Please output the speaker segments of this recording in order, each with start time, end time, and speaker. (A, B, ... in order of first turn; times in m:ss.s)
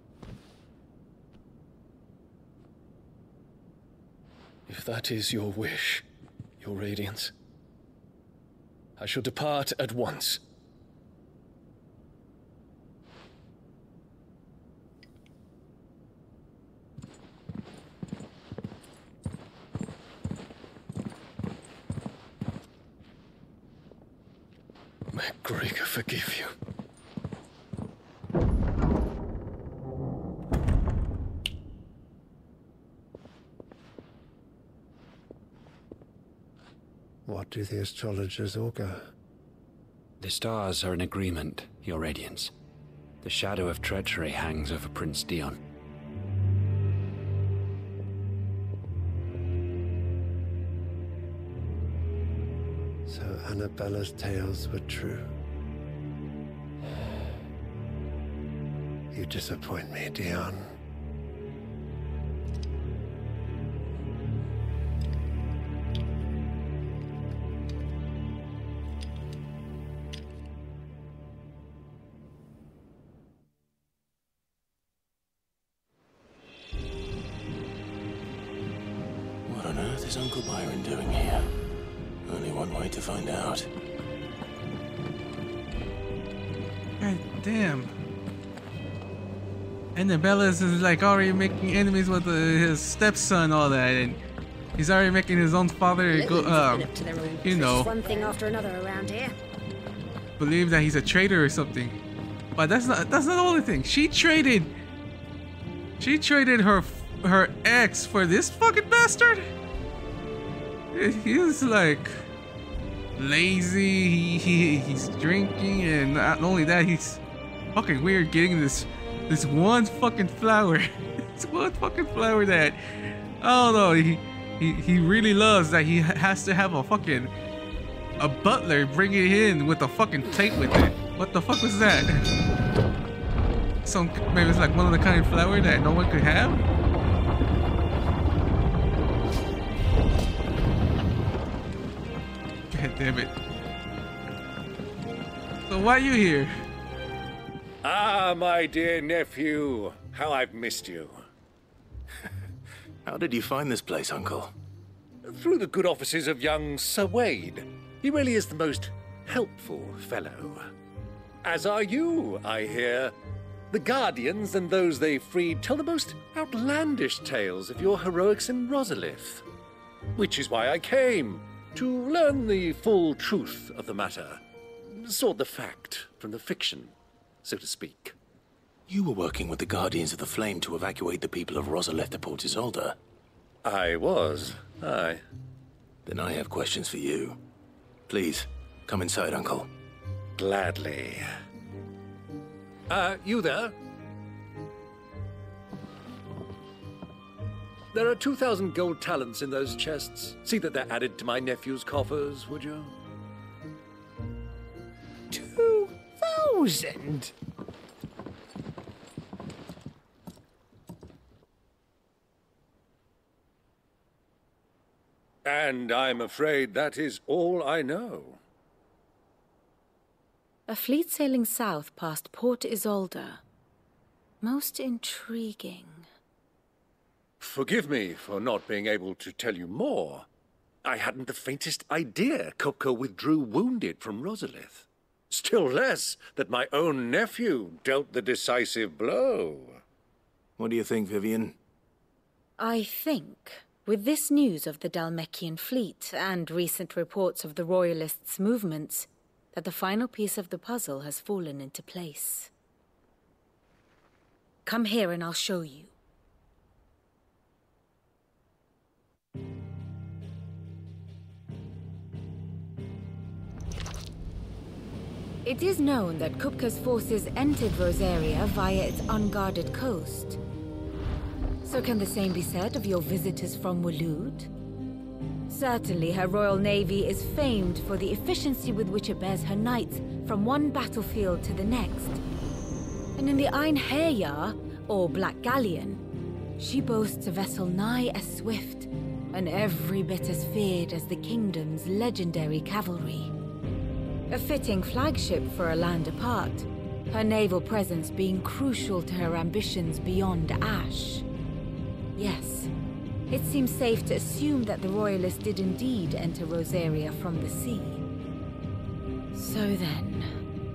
0:04.7-0:06.0 A
0:06.6-0:07.3 A
0:09.0-0:10.4 A
0:25.1-0:26.5 A
0:37.2-0:39.1 B
0:40.2-0:42.5 C
0:43.2-0:45.6 C
0:53.1-0:55.3 B
0:59.1-1:00.7 B
1:19.4-1:21.5 D
1:22.2-1:23.7 D
1:27.0-1:27.9 E
1:29.9-1:34.2 E
1:34.8-1:36.9 E
1:36.1-1:39.3 F
1:37.4-1:37.9 E
1:40.4-1:42.0 E
1:42.6-1:44.7 E
1:46.0-1:49.5 E
1:50.9-1:52.2 E
1:53.2-1:57.2 E
1:57.7-2:07.3 E
2:08.2-2:12.2 E
2:13.8-2:16.6 E
2:22.7-2:23.3 E
2:25.6-2:26.5 E
2:27.8-2:31.2 G
2:33.0-2:34.5 D
2:35.2-2:40.7 G
2:41.4-2:43.1 G
2:43.7-2:49.4 G
2:50.1-2:58.2 G
2:58.9-3:03.0 D
3:03.6-3:05.2 G
3:06.0-3:07.4 D
3:08.1-3:09.7 D
3:10.4-3:11.2 G
3:12.9-3:13.7 G
3:17.9-3:22.9 G
3:25.3-3:27.3 H
3:35.4-3:38.4 G
3:40.7-3:43.4 I
3:44.4-3:46.1 I
3:47.4-3:50.3 G
3:50.8-3:59.8 G
4:00.6-4:01.6 D
4:02.6-4:12.5 I
4:14.6-4:15.9 I
4:25.4-4:30.4 I
4:31.6-4:34.5 I
4:35.5-4:42.2 I
4:43.2-4:46.0 I
4:46.6-4:53.3 I
4:54.3-5:01.2 I
5:02.2-5:02.7 I
5:03.3-5:08.0 I
5:09.3-5:10.3 I